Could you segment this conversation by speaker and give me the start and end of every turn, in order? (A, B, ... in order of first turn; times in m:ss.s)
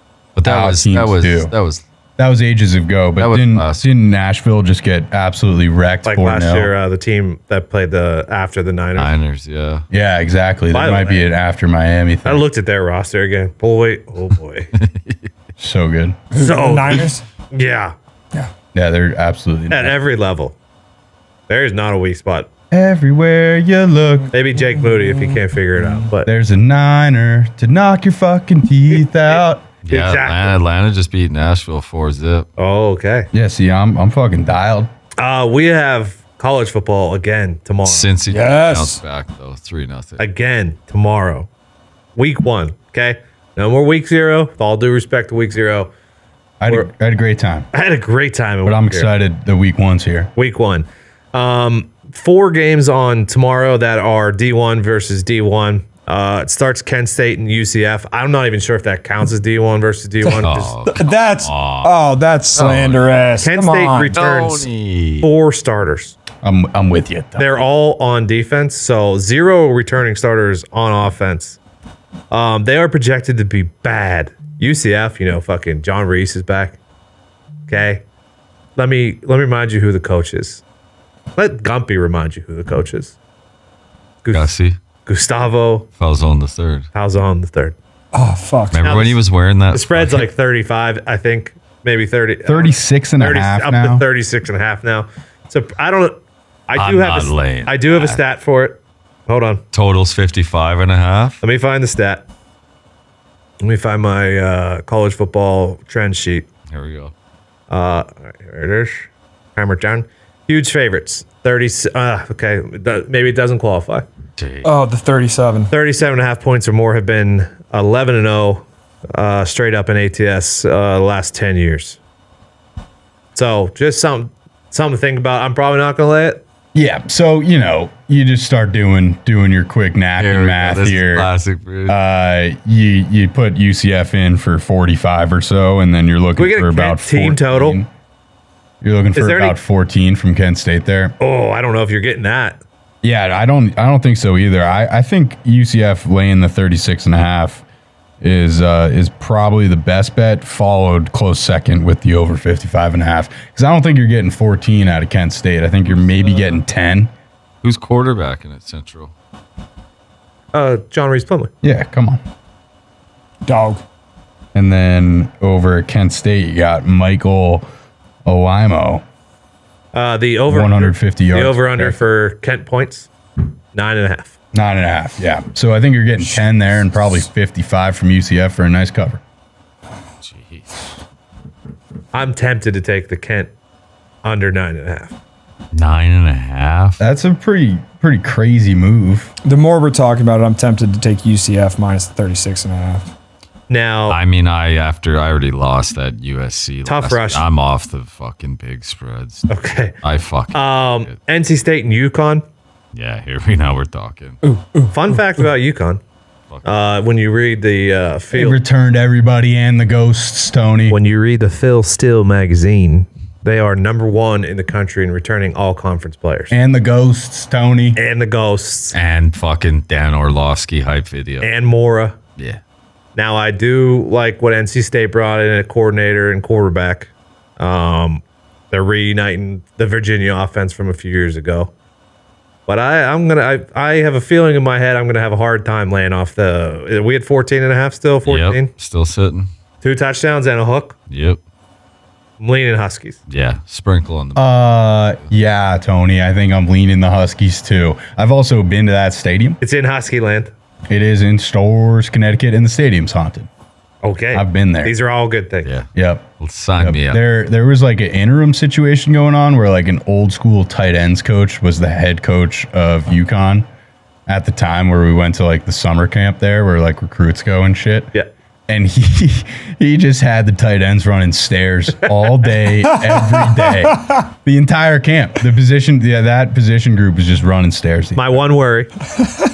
0:00.4-0:01.8 A
0:00.4-0:01.5 B
0:02.2-0:06.7 B
0:03.2-0:03.9 A
0:06.0-0:09.1 C
0:09.0-0:09.8 A
0:09.9-0:12.4 B
0:10.7-0:11.3 C
0:12.2-0:14.7 C
0:14.8-0:15.3 A
0:15.6-0:16.2 B
0:16.3-0:17.2 D
0:16.3-0:17.9 C
0:18.7-0:19.9 B
0:19.7-0:20.5 C
0:21.5-0:22.5 C
0:22.7-0:24.3 B
0:24.3-0:26.3 C
0:24.8-0:25.4 D
0:26.2-0:29.6 B
0:29.3-0:30.5 C
0:29.8-0:32.5 A
0:32.6-0:33.3 C
0:33.3-0:34.9 B
0:35.2-0:38.1 C
0:37.8-0:40.2 A
0:38.3-0:39.0 D
0:40.2-0:41.5 C
0:42.2-0:45.9 C
0:46.6-0:47.7 B
0:47.7-0:49.1 C
0:48.6-0:50.3 B
0:50.4-1:00.7 C
1:00.2-1:04.2 D
1:00.4-1:02.0 A
1:02.5-1:03.2 A
1:03.4-1:04.7 C
1:04.1-1:05.3 A
1:05.2-1:06.2 C
1:06.4-1:07.4 B
1:07.4-1:11.6 C
1:12.3-1:16.8 C
1:17.7-1:18.0 C
1:18.8-1:20.6 C
1:21.4-1:23.2 C
1:24.2-1:24.5 C
1:24.3-1:24.8 A
1:25.0-1:25.9 C
1:26.0-1:26.9 A
1:26.9-1:27.7 C
1:28.1-1:28.8 D
1:28.7-1:30.3 A
1:28.8-1:29.2 C
1:29.7-1:36.2 C
1:32.4-1:34.0 B
1:36.7-1:39.6 C
1:36.8-1:38.2 A
1:39.7-1:41.4 A
1:41.4-1:42.2 C
1:43.6-1:46.4 C
1:46.7-1:47.1 A
1:47.7-1:54.0 C
1:54.4-1:54.7 A
1:54.6-1:55.7 D
1:55.7-2:02.0 C
2:03.3-2:06.4 C
2:06.7-2:11.3 B
2:10.2-2:12.0 A
2:11.9-2:17.9 B
2:16.4-2:17.8 C
2:18.8-2:21.1 B
2:19.2-2:19.6 C
2:21.2-2:22.6 C
2:23.0-2:27.6 B
2:28.2-2:37.1 B
2:37.6-2:39.1 A
2:40.5-2:41.5 C
2:41.6-2:42.2 B
2:43.4-2:43.8 D
2:44.5-2:47.6 B
2:48.2-2:49.0 B
2:49.9-2:53.1 C
2:50.5-2:52.0 B
2:53.7-2:54.3 C
2:54.5-2:59.2 B
3:00.2-3:00.7 A
3:02.1-3:03.5 C
3:04.2-3:05.1 C
3:05.7-3:07.0 A
3:07.0-3:09.3 B
3:09.4-3:13.1 D
3:13.7-3:14.2 C
3:14.1-3:19.5 A
3:16.8-3:17.4 C
3:19.5-3:19.9 C
3:20.0-3:21.1 A
3:20.5-3:22.4 C
3:22.9-3:24.4 A
3:24.4-3:25.2 D
3:24.9-3:26.0 C
3:26.6-3:28.6 C
3:28.3-3:31.0 B
3:30.9-3:36.5 C
3:36.5-3:38.0 B
3:38.0-3:39.0 C
3:38.9-3:41.5 A
3:41.4-3:42.2 C
3:43.2-3:51.7 C
3:52.7-3:58.7 C
3:58.2-3:59.5 A
3:59.8-4:01.0 C
4:01.1-4:01.4 A
4:02.4-4:03.2 C
4:03.3-4:04.5 A
4:04.3-4:09.6 B
4:09.6-4:10.5 C
4:10.9-4:13.5 B
4:14.0-4:15.7 C
4:14.3-4:14.9 B
4:15.9-4:23.6 B
4:16.4-4:17.2 A
4:24.3-4:28.1 B
4:28.7-4:38.4 B
4:32.9-4:34.1 D
4:38.2-4:38.9 C